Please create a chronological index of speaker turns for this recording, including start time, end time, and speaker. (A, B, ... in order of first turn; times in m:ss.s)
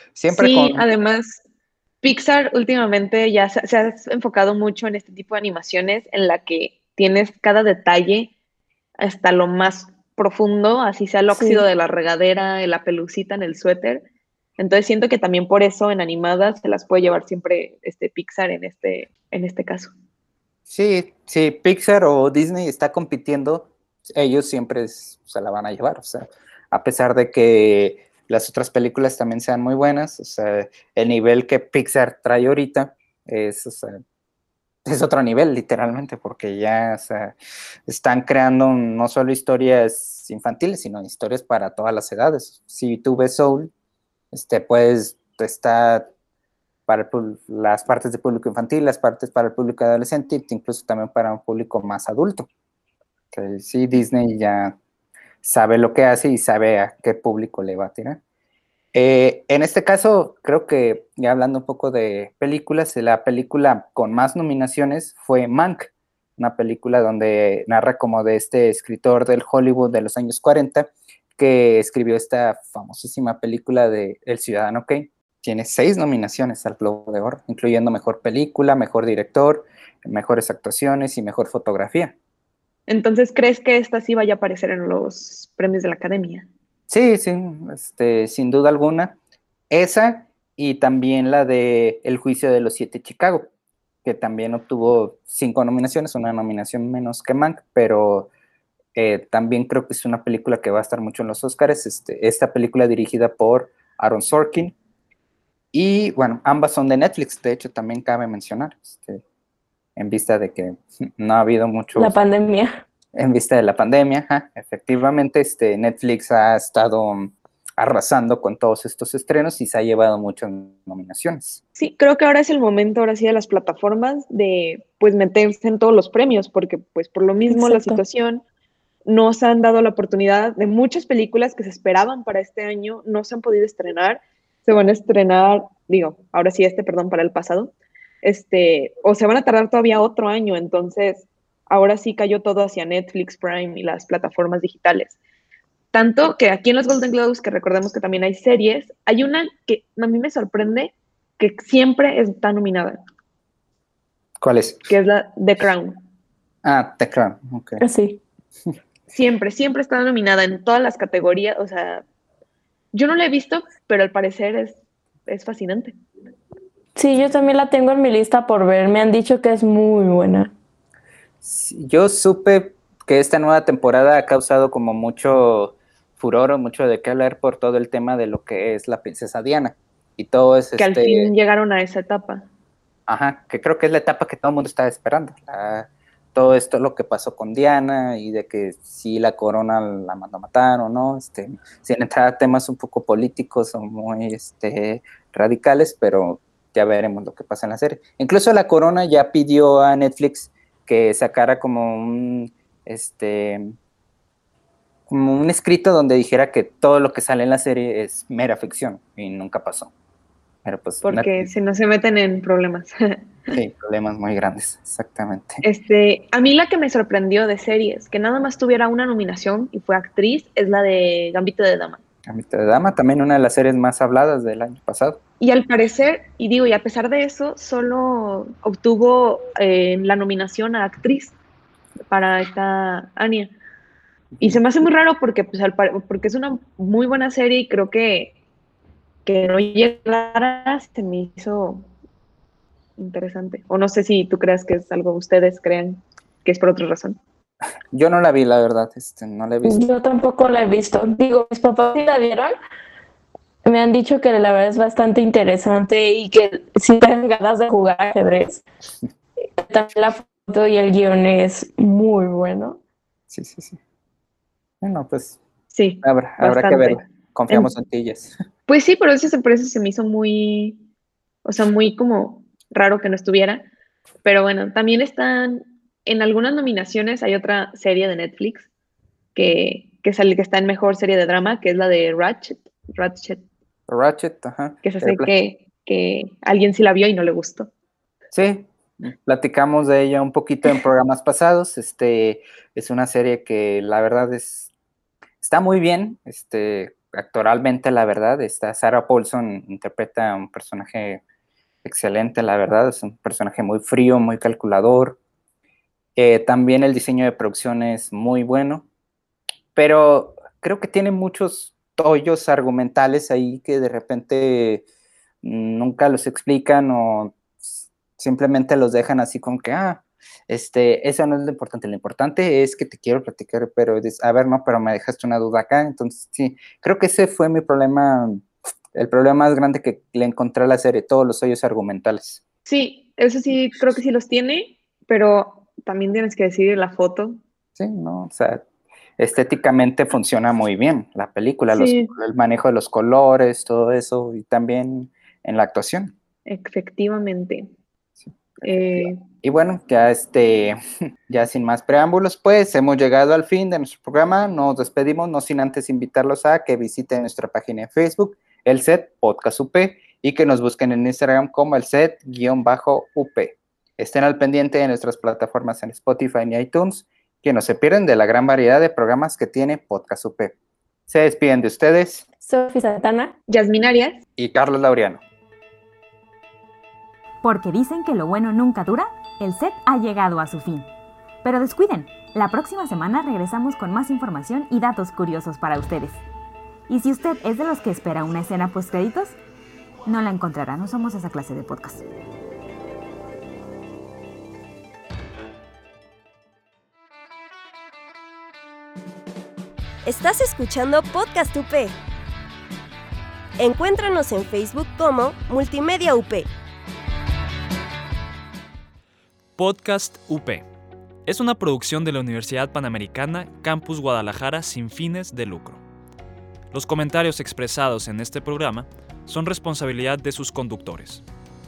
0:00.1-0:00.8 A
0:00.3-0:01.4 B
0:02.0-0:08.3 B
0:09.0-0:14.0 B
0:11.3-0:11.6 C
0:14.6-0:19.9 B
0:20.7-0:34.0 A
0:34.8-0:37.3 A
0:37.9-0:43.7 A
0:44.3-0:46.1 A
0:46.9-0:52.5 A
0:53.3-0:54.8 A
0:55.4-0:58.2 A
0:58.9-1:22.1 A
1:22.9-1:26.5 B
1:26.9-1:29.2 A
1:29.7-1:33.5 A
1:34.0-1:38.3 A
1:38.9-1:44.7 A
1:45.7-1:49.2 A
1:50.0-1:52.2 A
1:51.9-1:52.8 C
1:53.1-2:01.6 A
2:01.8-2:08.4 B
2:07.5-2:08.0 C
2:09.0-2:25.2 B
2:25.9-2:33.0 B
2:34.4-2:34.9 A
2:34.9-2:36.0 B
2:36.6-2:37.8 A
2:37.8-2:38.2 C
2:39.1-2:42.0 B
2:42.9-2:46.0 B
2:47.0-2:50.5 C
2:51.4-3:01.3 A
3:00.8-3:02.4 B
3:03.1-3:23.8 A
3:25.1-3:29.9 A
3:30.6-3:31.5 A
3:31.0-3:33.6 B
3:33.5-3:35.6 A
3:35.6-3:42.0 B
3:42.2-3:45.2 A
3:45.4-3:51.3 B
3:52.1-3:53.5 B
3:54.4-3:58.3 B
3:59.2-4:01.8 B
4:03.0-4:07.2 B
4:07.9-4:09.8 A
4:09.6-4:12.5 C
4:13.6-4:18.6 C
4:19.6-4:22.8 C
4:23.3-4:23.8 A
4:24.8-4:25.4 A
4:25.7-4:27.7 B
4:26.0-4:28.3 A
4:28.7-4:30.8 B
4:31.4-4:33.6 B
4:34.2-4:38.7 B
4:39.3-4:43.4 B
4:43.9-4:45.3 A
4:44.8-4:47.7 B
4:48.3-4:54.7 A
4:55.4-5:01.2 A
5:01.8-5:05.2 A
5:06.2-5:08.9 A
5:09.7-5:14.8 A
5:15.4-5:32.4 A
5:32.6-5:37.4 B
5:37.8-5:38.6 A
5:39.2-5:46.1 A
5:41.7-5:42.1 B
5:46.5-5:47.7 B
5:48.2-5:50.8 A
5:48.6-5:49.2 B
5:51.3-6:10.5 A
6:11.1-6:12.2 A
6:12.4-6:13.4 C
6:13.5-6:14.2 B
6:14.4-6:15.2 A
6:17.4-6:20.9 D
6:21.4-6:26.2 D
6:26.9-6:29.4 D
6:30.0-6:32.0 D
6:40.0-6:42.0 E
6:43.6-6:46.5 E
6:49.6-6:50.6 F
6:51.2-6:55.8 F
6:56.7-7:01.2 F